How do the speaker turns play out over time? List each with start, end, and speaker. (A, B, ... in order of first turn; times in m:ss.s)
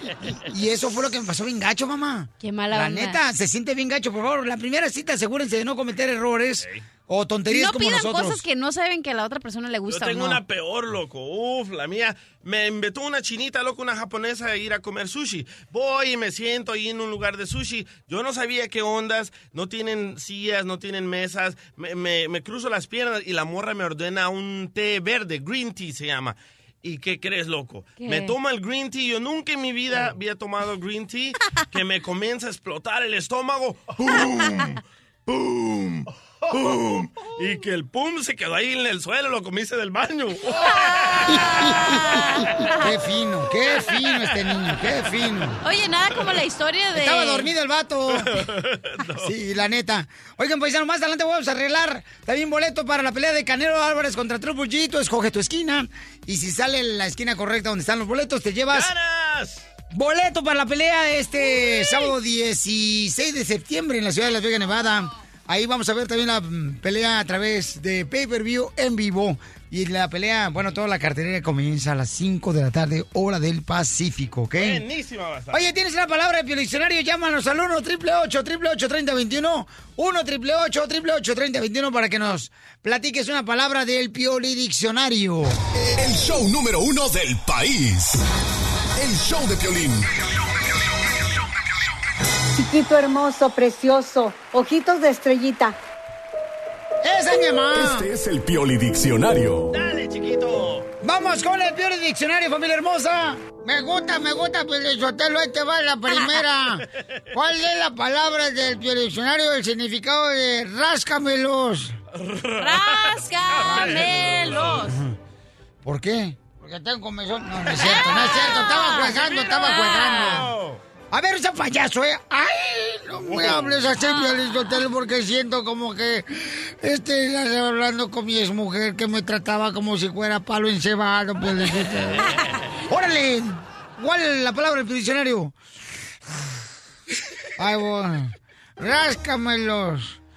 0:00.5-0:08.4 A
0:02.4-0:03.2 B
0:07.5-0:10.4 B
0:09.9-0:41.4 C
0:28.0-0:28.3 B
0:41.3-0:42.8 B
0:41.3-0:42.2 A
0:42.8-0:45.6 A
0:45.6-0:47.5 B
0:46.9-0:48.4 A
0:48.1-0:49.3 C
0:49.2-0:58.9 A
0:58.7-0:59.6 C
0:59.9-1:14.8 A
1:14.6-1:15.6 C
1:15.5-1:25.6 A
1:25.8-1:28.2 D
1:29.0-1:30.1 D
1:32.5-1:35.8 E
1:37.0-1:38.1 A
1:37.7-1:39.7 D
1:39.7-1:40.9 C
1:41.0-1:52.0 A
1:46.1-1:46.4 B
1:52.2-1:54.8 C
1:52.6-1:54.9 B
1:53.6-1:55.1 A
1:55.8-2:00.5 A
1:57.8-1:58.3 C
1:57.9-2:00.4 B
1:59.2-2:00.8 C
2:01.1-2:12.3 A
2:03.2-2:03.9 C
2:04.0-2:04.4 B
2:12.9-2:15.5 A
2:17.6-2:20.2 A